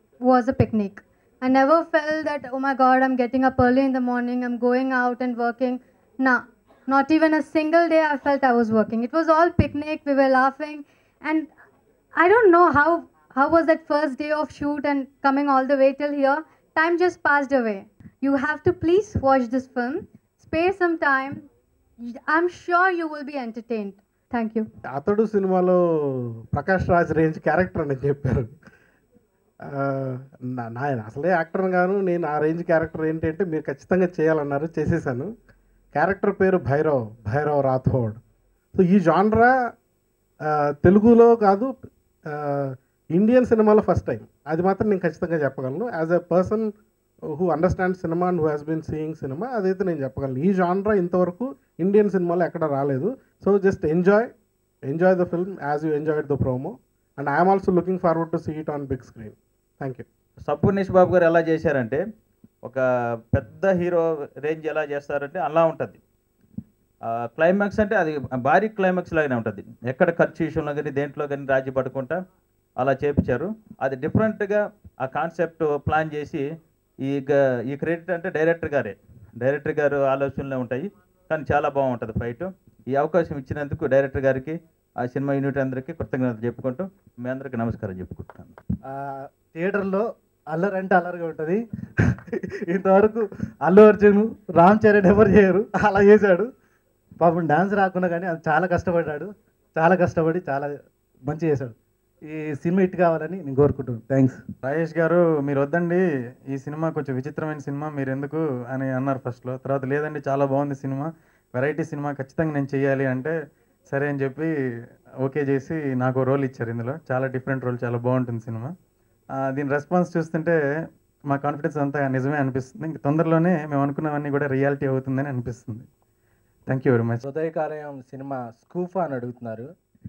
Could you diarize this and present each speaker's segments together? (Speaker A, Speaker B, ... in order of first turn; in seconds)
Speaker A: 0.2-11.5, 12.2-21.5, 22.3-24.7
Speaker B: 24.9-28.5, 29.7-35.3, 35.9-38.2, 38.7-39.5, 40.8-41.7, 42.3-46.7, 47.3-54.3, 54.9-60.0
Speaker C: 60.5-62.0, 62.6-66.0, 67.0-72.2, 72.8-76.5, 77.0-88.5
Speaker D: 88.9-91.6, 92.7-96.5, 97.2-100.7, 101.2-101.7, 102.3-104.4
Speaker E: 104.6-113.3, 113.9-114.5, 115.2-118.7, 119.4-120.6, 121.3-125.9, 126.7-127.2
Speaker F: 127.2-129.7